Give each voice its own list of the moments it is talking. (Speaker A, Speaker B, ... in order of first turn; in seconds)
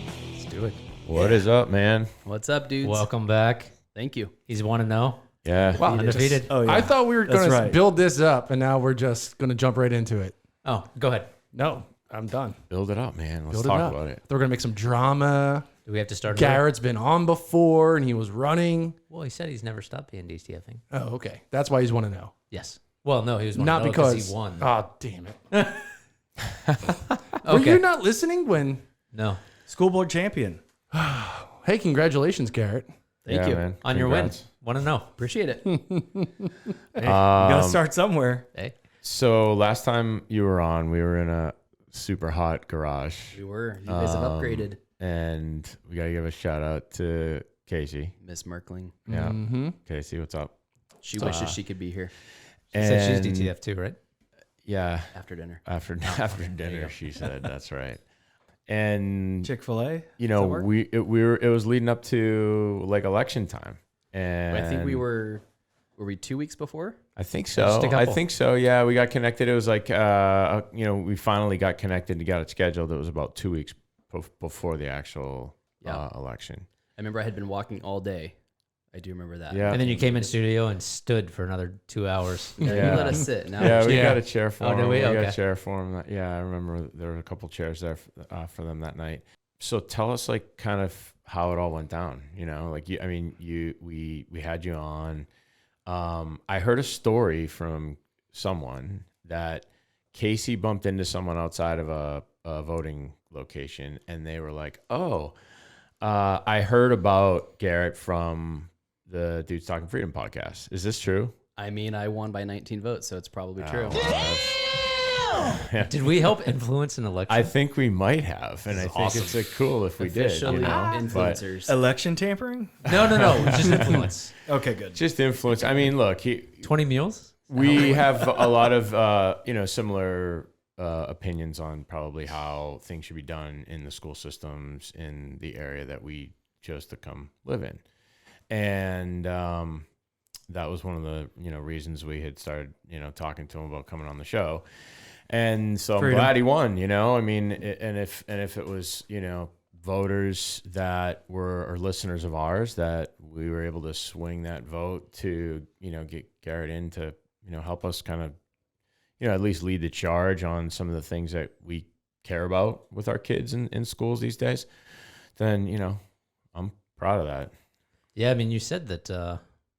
Speaker A: 0.3-0.8, 2.8-3.7, 4.5-5.2, 5.9-6.5, 10.6-11.3, 15.9-16.6, 19.1-20.8, 22.5-24.7, 25.5-25.8, 27.4-27.8, 29.1-29.4, 33.8-35.1, 52.8-54.0, 67.6-68.2, 79.7-82.9, 84.5-85.4, 115.8-117.5, 118.7-119.4, 120.4-120.8, 122.8-124.3, 126.6-128.1, 168.2-169.4
Speaker B: 1.1-2.1, 5.4-5.8, 12.7-14.2, 33.3-34.5, 37.0-37.9, 39.0-48.2, 49.1-50.5, 52.7-53.5, 54.6-55.1, 55.6-58.0, 58.7-59.5, 60.2-65.0, 67.2-76.7, 79.5-80.0, 82.7-95.3, 95.9-105.3, 106.0-111.3, 113.6-114.7, 115.3-116.2, 117.3-121.4, 122.9-124.1, 124.9-126.7, 127.5-137.8, 138.5-139.9, 140.5-144.7, 145.3-158.3, 159.2-164.7, 165.4-166.0, 166.5-167.5
Speaker C: 2.2-3.1, 3.9-4.3, 5.6-6.4, 33.2-33.6, 35.2-35.7, 43.3-44.8, 48.2-49.0, 51.0-52.1, 55.1-56.5, 64.5-65.4, 66.0-67.0, 77.0-78.3, 78.9-80.1, 82.6-84.2, 111.6-114.1, 120.0-121.8
Speaker D: 5.8-10.4, 11.5-12.6, 13.5-15.7, 16.3-19.0, 20.9-22.3, 23.6-25.4, 27.4-28.8, 30.9-32.9, 35.9-36.3, 49.1-49.8, 83.8-84.2
Speaker E: 6.5-7.8, 29.7-30.6, 37.3-38.5, 59.4-60.7, 121.7-122.9, 124.5-125.0, 146.0-146.3